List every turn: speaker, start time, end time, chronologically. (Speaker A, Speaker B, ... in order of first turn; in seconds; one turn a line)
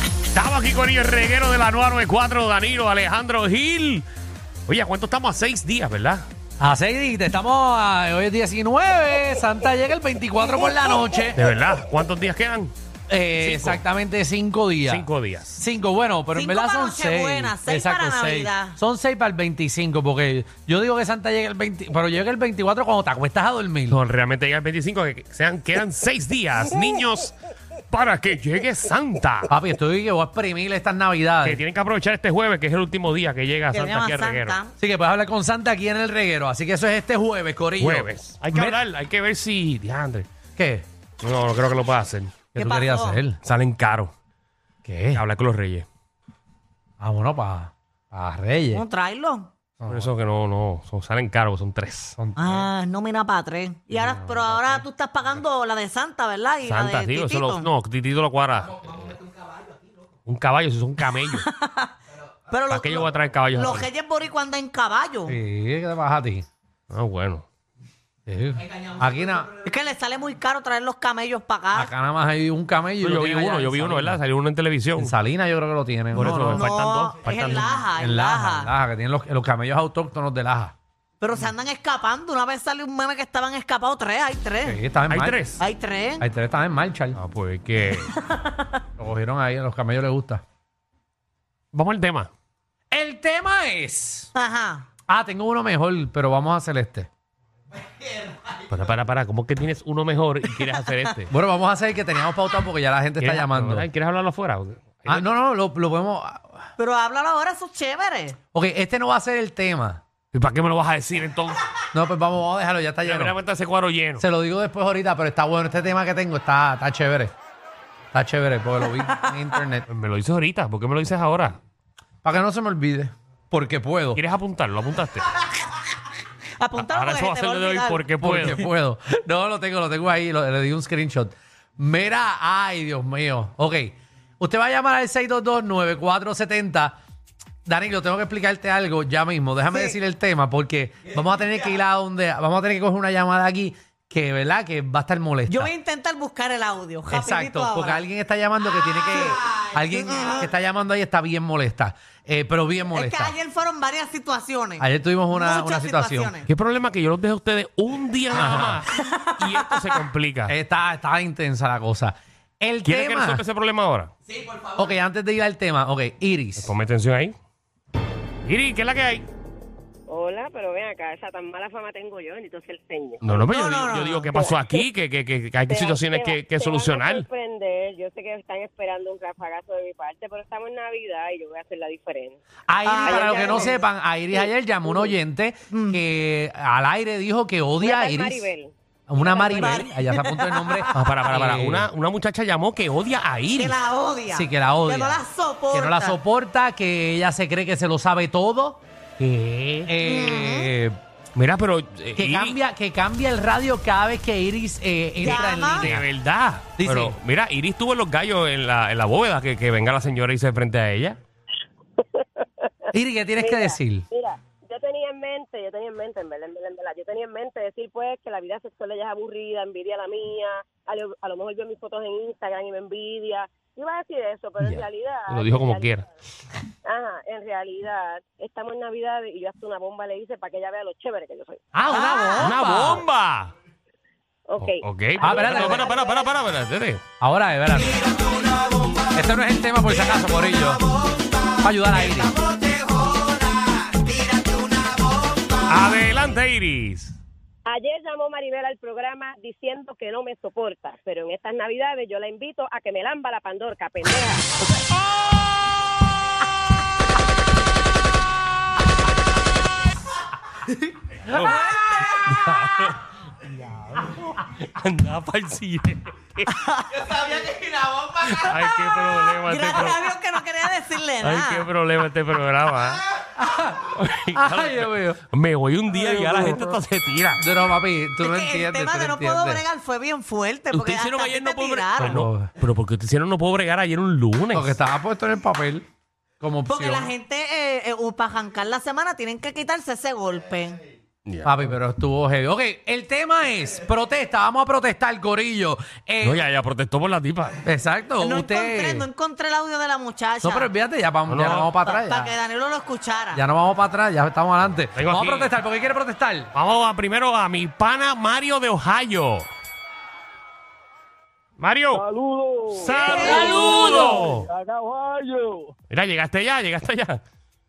Speaker A: 0.3-4.1
Speaker A: 4.7-6.3
Speaker B: 6.6-11.4
Speaker A: 11.4-12.7
Speaker B: 13.1-24.0
Speaker A: 13.4-13.8
Speaker A: 14.9-15.6
Speaker C: 16.3-18.8
Speaker A: 23.9-27.4
Speaker A: 27.9-29.5
Speaker B: 29.5-31.6
Speaker A: 31.4-34.6
Speaker C: 33.7-34.7
Speaker B: 34.8-38.8
Speaker A: 37.8-40.3
Speaker B: 40.6-40.9
Speaker A: 41.2-42.4
Speaker B: 42.5-43.4
Speaker C: 42.5-43.2
Speaker A: 43.4-44.1
Speaker B: 44.9-45.2
Speaker A: 45.1-45.9
Speaker B: 47.0-48.8
Speaker C: 48.7-49.5
Speaker B: 49.8-50.1
Speaker A: 49.9-52.2
Speaker B: 52.2-52.7
Speaker C: 52.4-57.7
Speaker B: 53.9-54.8
Speaker A: 56.7-59.2
Speaker A: 60.3-61.5
Speaker C: 61.1-62.0
Speaker C: 62.5-65.4
Speaker A: 62.7-63.9
Speaker B: 65.3-66.5
Speaker A: 66.9-67.5
Speaker B: 68.3-69.5
Speaker C: 69.6-71.9
Speaker B: 71.7-74.2
Speaker A: 73.0-75.1
Speaker B: 75.0-76.7
Speaker A: 76.1-77.7
Speaker C: 76.3-78.7
Speaker B: 77.4-80.8
Speaker C: 81.2-84.8
Speaker B: 84.6-85.4
Speaker A: 85.1-85.6
Speaker C: 85.6-86.2
Speaker B: 86.2-87.2
Speaker A: 87.2-88.1
Speaker C: 88.2-88.7
Speaker B: 89.0-90.4
Speaker A: 91.7-92.3
Speaker B: 92.9-94.3
Speaker C: 94.3-94.9
Speaker B: 95.1-97.1
Speaker A: 98.6-101.3
Speaker B: 101.3-103.9
Speaker A: 103.2-105.2
Speaker B: 105.1-106.6
Speaker C: 106.8-108.4
Speaker B: 108.5-110.0
Speaker A: 110.3-111.7
Speaker B: 111.9-113.4
Speaker A: 113.0-114.2
Speaker B: 114.2-117.3
Speaker B: 118.1-119.9
Speaker C: 119.0-119.5
Speaker A: 119.9-121.6
Speaker B: 122.2-124.2
Speaker A: 124.2-125.3
Speaker C: 126.6-128.0
Speaker A: 126.8-128.6
Speaker B: 128.2-137.0
Speaker B: 137.7-145.7
Speaker C: 145.5-148.0
Speaker B: 147.1-153.3
Speaker C: 149.0-150.5
Speaker C: 152.9-156.5
Speaker B: 154.8-156.3
Speaker A: 156.5-160.5
Speaker B: 158.3-158.8
Speaker C: 158.9-159.4
Speaker B: 160.5-163.4
Speaker A: 162.8-164.1
Speaker B: 164.7-166.7
Speaker A: 166.6-167.3
Speaker A: 168.4-169.3
Speaker D: 170.1-173.5
Speaker A: 173.2-177.3
Speaker C: 173.4-174.3
Speaker D: 174.3-174.9
Speaker D: 175.7-182.4
Speaker B: 182.7-188.5
Speaker C: 182.8-183.8
Speaker D: 183.0-183.9
Speaker D: 184.8-185.1
Speaker C: 185.7-186.0
Speaker D: 187.8-189.7
Speaker B: 189.1-191.9
Speaker C: 189.5-190.9
Speaker A: 190.9-193.8
Speaker C: 193.6-196.2
Speaker B: 194.3-198.8
Speaker A: 199.2-199.9
Speaker B: 199.9-201.0
Speaker C: 200.0-200.7
Speaker A: 201.3-202.6
Speaker B: 202.2-206.1
Speaker C: 205.2-205.9
Speaker A: 205.8-211.2
Speaker B: 206.8-207.2
Speaker D: 212.2-212.5
Speaker B: 212.9-214.1
Speaker D: 213.4-226.0
Speaker A: 224.6-226.1
Speaker D: 226.8-231.6
Speaker B: 231.7-233.0
Speaker C: 231.9-232.6
Speaker A: 232.4-233.5
Speaker D: 234.5-236.3
Speaker A: 234.6-237.0
Speaker B: 235.2-235.9
Speaker B: 237.2-238.1
Speaker B: 239.1-240.9
Speaker B: 241.6-242.3
Speaker A: 245.7-247.2
Speaker D: 247.7-254.6
Speaker A: 261.3-266.5
Speaker C: 261.3-262.3
Speaker C: 266.5-267.2
Speaker A: 267.9-270.1
Speaker C: 269.4-271.7
Speaker A: 271.2-273.1
Speaker B: 273.4-275.2
Speaker A: 273.9-277.4
Speaker B: 275.9-276.8
Speaker B: 277.4-279.6
Speaker C: 278.2-282.3
Speaker A: 280.7-284.8
Speaker B: 282.0-282.5
Speaker B: 284.5-285.9
Speaker B: 286.4-287.1
Speaker C: 286.7-290.8
Speaker A: 291.3-291.6
Speaker B: 291.4-296.4
Speaker A: 296.2-297.6
Speaker B: 297.6-299.1
Speaker C: 298.2-300.7
Speaker B: 300.4-302.3
Speaker A: 301.3-301.7
Speaker C: 301.8-303.4
Speaker B: 303.3-306.5
Speaker A: 304.9-305.5
Speaker A: 306.5-309.5
Speaker A: 311.6-312.1
Speaker E: 311.9-315.7
Speaker A: 312.7-314.5
Speaker C: 312.9-313.6
Speaker A: 315.9-317.2